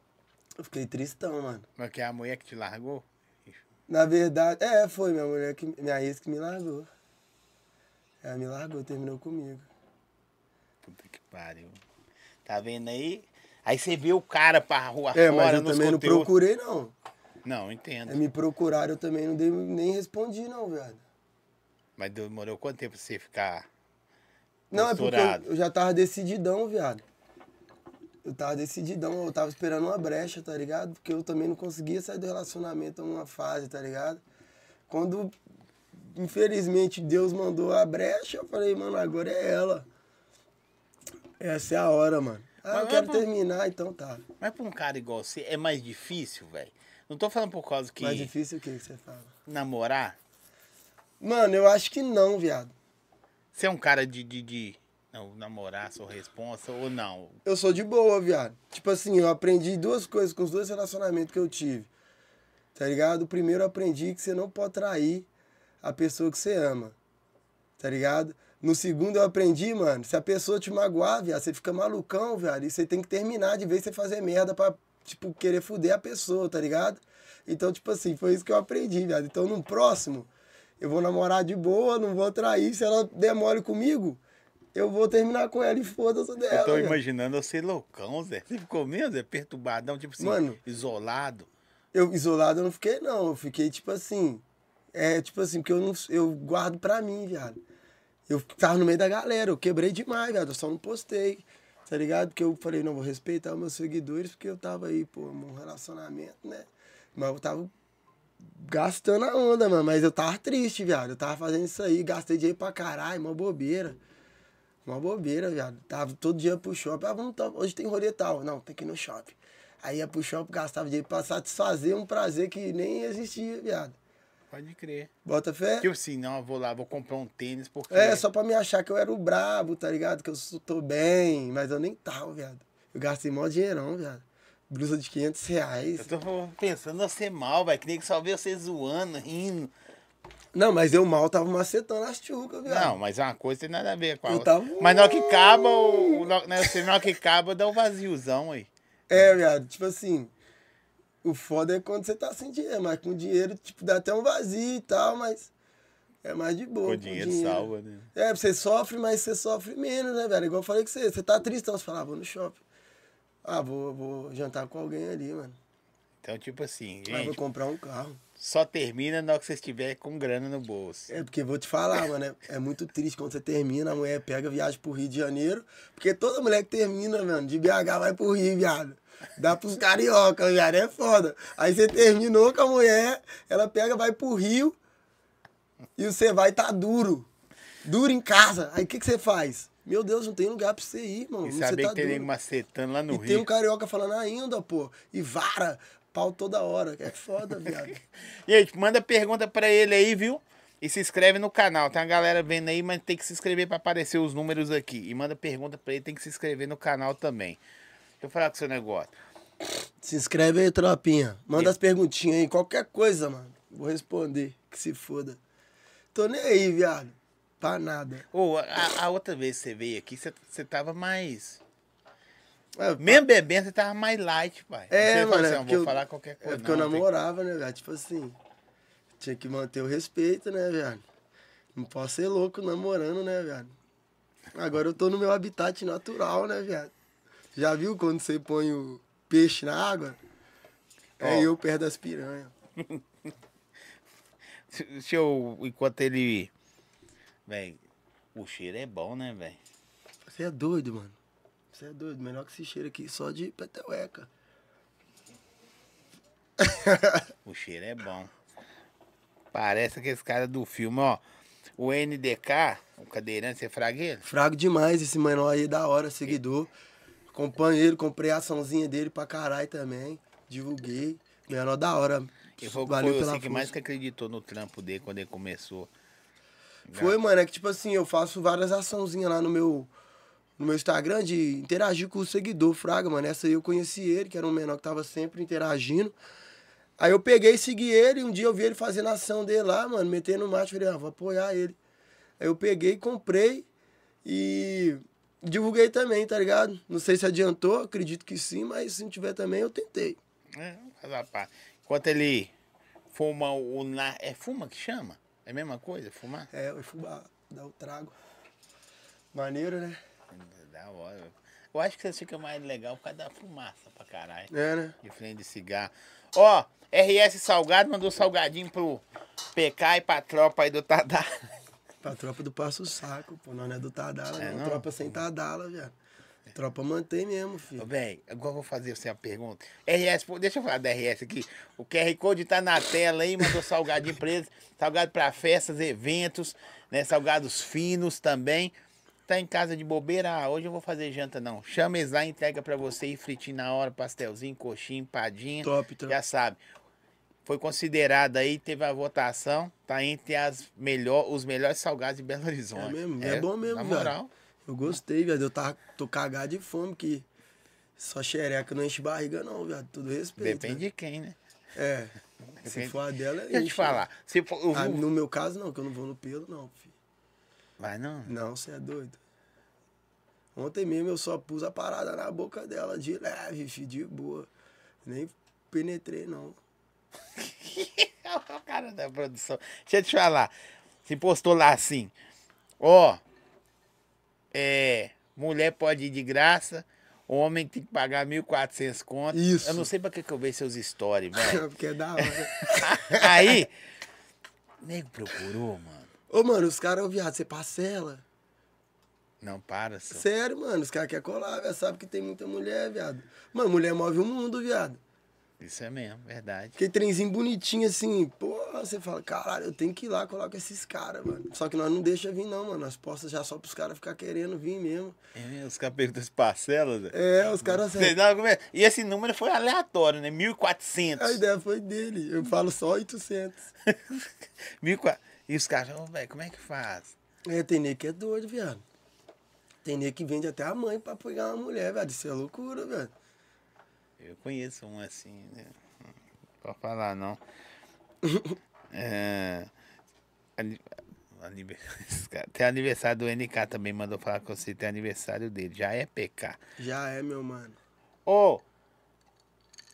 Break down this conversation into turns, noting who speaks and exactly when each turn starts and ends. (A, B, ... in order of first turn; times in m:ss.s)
0:00.6-0:01.6 A
0:01.8-0:03.6 B
0:03.9-0:06.9 A
0:08.2-0:09.7 A
0:10.8-0:11.8 B
0:12.4-0:16.3 B
0:15.1-0:16.9 A
0:17.4-0:18.2 B
0:18.1-0:21.0 A
0:22.0-0:23.7 B
0:24.7-0:27.0 A
0:24.7-0:25.4 B
0:28.2-0:34.2 A
0:34.9-0:35.3 A
0:36.1-0:39.9 A
0:41.4-0:44.2 A
0:42.7-0:43.2 B
0:44.4-0:48.3 B
0:48.0-0:49.3 A
0:49.4-0:50.2 B
0:51.2-0:52.7 A
0:53.5-0:57.4 B
0:57.4-1:01.9 A
1:02.7-1:05.3 A
1:05.8-1:07.0 A
1:07.8-1:24.2 A
1:24.7-1:27.0 A
1:26.5-1:31.5 B
1:30.2-1:30.6 A
1:31.9-1:34.4 A
1:34.9-1:37.6 A
1:38.3-1:47.7 A
1:48.4-1:54.0 A
1:54.8-2:04.0 A
2:04.5-2:05.1 B
2:05.2-2:05.9 A
2:05.8-2:08.2 B
2:07.9-2:16.1 A
2:16.0-2:19.7 B
2:20.5-2:23.0 A
2:22.6-2:28.7 B
2:24.3-2:26.8 A
2:29.1-2:30.3 A
2:31.2-2:35.5 A
2:36.2-2:42.6 A
2:36.8-2:38.1 B
2:43.4-2:45.6 A
2:46.2-2:47.4 B
2:47.1-2:48.2 A
2:48.4-2:51.1 B
2:51.1-3:04.8 A
3:06.0-3:07.3 A
3:07.8-3:12.3 A
3:11.4-3:13.5 B
3:13.1-3:18.0 A
3:17.6-3:17.9 B
3:18.4-3:27.6 B
3:28.2-3:29.1 B
3:30.0-3:35.4 A
3:36.1-3:38.3 A
3:38.3-3:41.6 B
3:42.8-3:43.2 A
3:43.0-3:47.1 B
3:44.9-3:48.4 A
3:49.2-3:51.0 A
3:51.7-3:53.7 A
3:54.5-3:56.9 A
3:57.5-4:00.2 A
4:01.2-4:02.5 A
4:01.2-4:01.5 B
4:04.7-4:06.5 B
4:07.4-4:07.8 B
4:08.3-4:09.6 B
4:10.2-4:11.2 A
4:11.7-4:14.3 A
4:16.6-4:17.3 A
4:17.4-4:18.3 B
4:19.5-4:21.2 B
4:21.8-4:24.2 B
4:24.2-4:26.7 A
4:27.3-4:33.7 A
4:32.6-4:35.9 B
4:36.9-4:37.2 B
4:36.9-4:39.9 A
4:40.6-4:46.1 A
4:47.0-4:51.8 A
4:52.4-4:53.7 A
4:54.2-5:00.2 A
5:00.5-5:02.5 B
5:03.1-5:06.5 B
5:06.5-5:08.1 A
5:09.3-5:10.0 A
5:10.3-5:14.5 B
5:14.5-5:15.0 A
5:15.0-5:21.5 B
5:22.0-5:25.9 A
5:24.4-5:25.0 B
5:26.5-5:27.8 A
5:27.8-5:38.7 B
5:39.3-5:46.6 B
5:45.6-5:46.2 A
5:47.4-5:54.3 B
5:52.7-5:57.2 A
5:58.0-6:00.8 A
6:00.4-6:01.4 B
6:01.7-6:04.0 A
6:02.6-6:03.0 B
6:03.5-6:05.0 B
6:04.7-6:06.9 A
6:07.8-6:08.3 B
6:08.2-6:09.2 A
6:10.5-6:14.5 A
6:15.0-6:16.6 A
6:17.4-6:20.5 B
6:21.0-6:22.1 B
6:22.8-6:23.2 B
6:24.5-6:31.6 B
6:29.3-6:29.9 A
6:31.3-6:33.6 A
6:32.2-6:33.7 B
6:34.8-6:36.1 B
6:36.3-6:38.2 A
6:39.4-6:40.2 B
6:40.1-6:45.0 A
6:45.6-6:46.8 B
6:46.8-6:55.2 A
6:55.3-7:01.4 B
6:57.1-6:58.1 A
7:01.2-7:03.7 A
7:03.8-7:07.1 B
7:07.4-7:08.8 A
7:09.8-7:13.1 A
7:14.2-7:17.4 B
7:18.2-7:18.6 A
7:18.9-7:19.7 B
7:20.6-7:26.6 B
7:26.8-7:27.8 A
7:28.2-7:28.6 B